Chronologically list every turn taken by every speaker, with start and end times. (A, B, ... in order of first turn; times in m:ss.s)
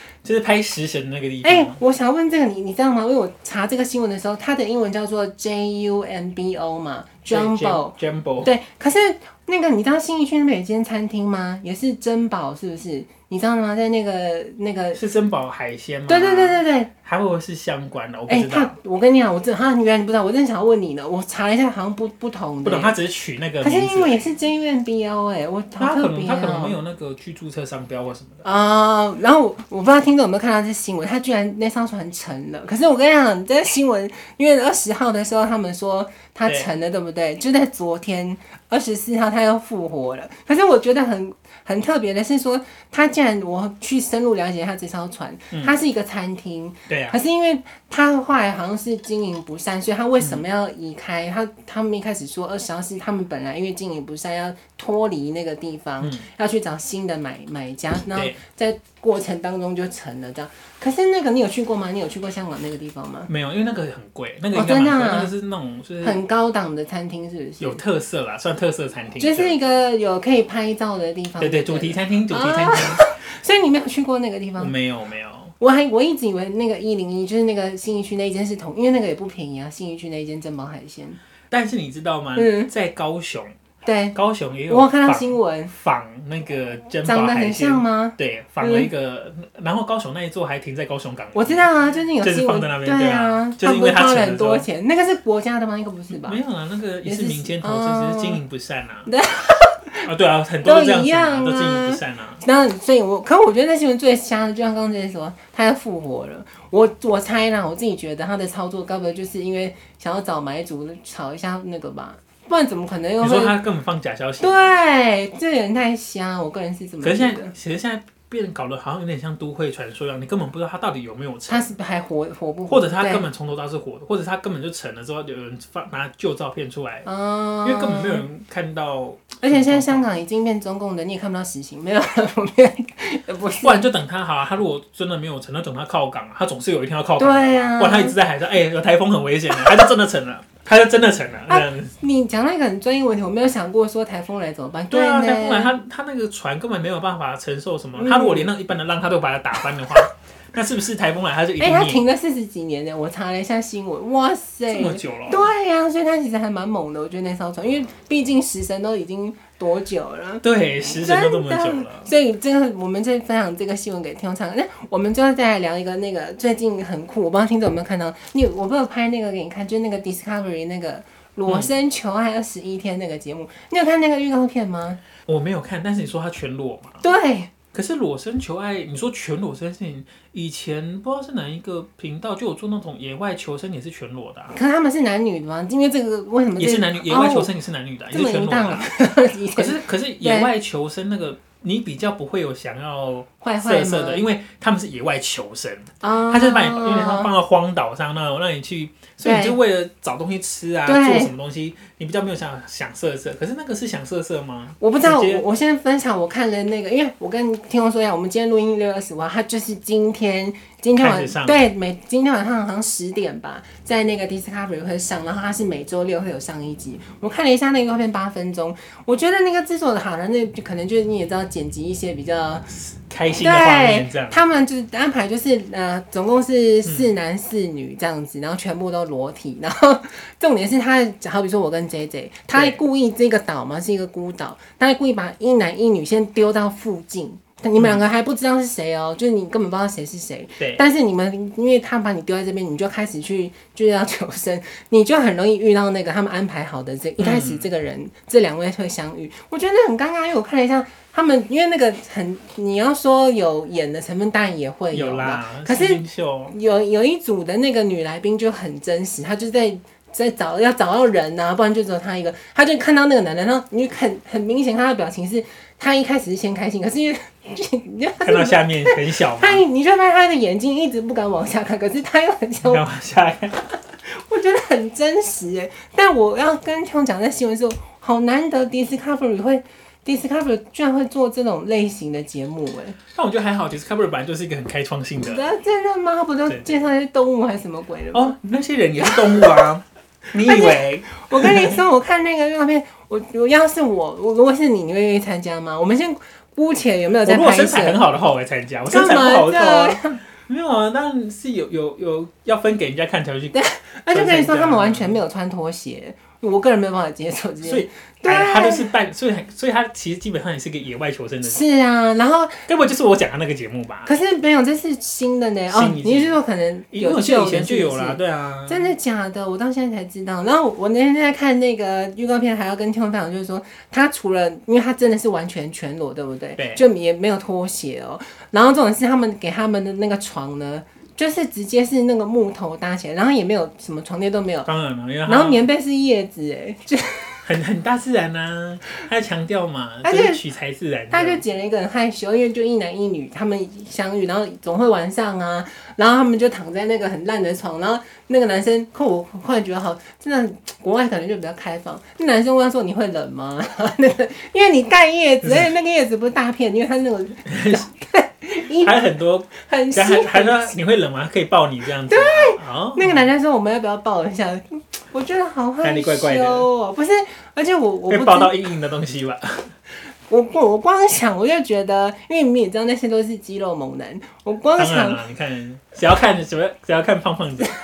0:00.2-0:01.8 A
0:01.4-0:15.0 B
0:07.3-0:08.5 A
0:14.9-0:18.7 A
0:16.1-0:16.9 B
0:18.3-0:23.0 B
0:22.6-0:24.3 A
0:23.6-0:26.8 B
0:25.8-0:28.4 A
0:28.4-1:03.3 B
0:46.9-0:47.2 A
0:56.0-0:56.2 A
0:58.1-0:58.4 A
1:03.3-1:06.2 A
1:04.5-1:05.3 B
1:06.0-1:07.8 B
1:07.6-1:09.5 A
1:09.2-1:14.7 B
1:11.4-1:13.1 A
1:14.6-1:15.5 A
1:15.6-1:21.2 B
1:21.5-1:23.5 A
1:22.4-1:22.7 B
1:23.8-1:24.2 B
1:24.1-1:34.7 A
1:24.7-1:25.7 B
1:27.0-1:28.9 B
1:31.3-1:36.4 B
1:36.1-1:39.1 A
1:37.0-1:38.4 B
1:39.0-1:40.1 B
1:40.0-1:42.4 A
1:40.6-1:53.6 B
1:53.2-1:54.6 A
1:54.4-1:57.5 B
1:57.0-2:01.7 A
2:01.5-2:03.2 B
2:02.7-2:07.1 A
2:07.0-2:08.2 B
2:07.6-2:10.1 A
2:09.4-2:13.9 B
2:13.6-2:21.9 A
2:17.2-2:18.2 B
2:21.5-2:25.8 B
2:24.9-2:32.0 A
2:28.0-2:28.5 B
2:31.6-2:55.0 B
2:34.7-2:35.5 A
2:40.4-2:42.1 A
2:55.2-2:57.0 A
2:57.0-2:57.5 B
2:57.7-3:04.5 A
3:04.5-3:07.5 B
3:06.6-3:08.9 A
3:08.1-3:10.5 B
3:09.6-3:25.4 A
3:13.4-3:14.2 B
3:16.0-3:17.3 B
3:19.2-3:19.6 B
3:20.8-3:21.3 B
3:24.8-3:42.7 B
3:31.0-3:31.6 A
3:42.7-3:44.4 A
3:43.3-4:32.8 B
3:46.8-3:47.1 A
3:52.5-3:52.8 A
4:00.6-4:00.8 A
4:07.2-4:07.7 A
4:14.9-4:16.6 A
4:28.2-4:29.6 A
4:32.6-4:33.6 A
4:34.0-4:43.0 B
4:43.1-4:45.4 A
4:45.2-4:48.4 B
4:46.5-4:46.8 A
4:48.1-4:51.8 A
4:49.0-4:49.6 B
4:50.4-4:58.0 B
4:57.2-5:05.2 A
4:58.8-5:00.2 B
5:03.5-5:08.9 B
5:07.6-5:11.6 A
5:11.4-5:12.6 B
5:12.7-5:14.1 A
5:14.0-5:34.7 B
5:15.7-5:16.4 A
5:16.9-5:18.9 A
5:26.6-5:26.8 A
5:34.6-5:35.6 A
5:35.2-5:37.4 B
5:37.4-5:41.4 A
5:40.0-5:40.4 B
5:41.1-5:59.0 B
5:55.4-5:55.7 A
5:57.5-5:57.9 A
5:58.8-6:03.3 A
5:59.6-6:00.8 B
6:02.1-6:08.6 B
6:05.8-6:06.7 A
6:08.1-6:09.7 A
6:10.3-6:15.2 B
6:14.8-6:17.7 A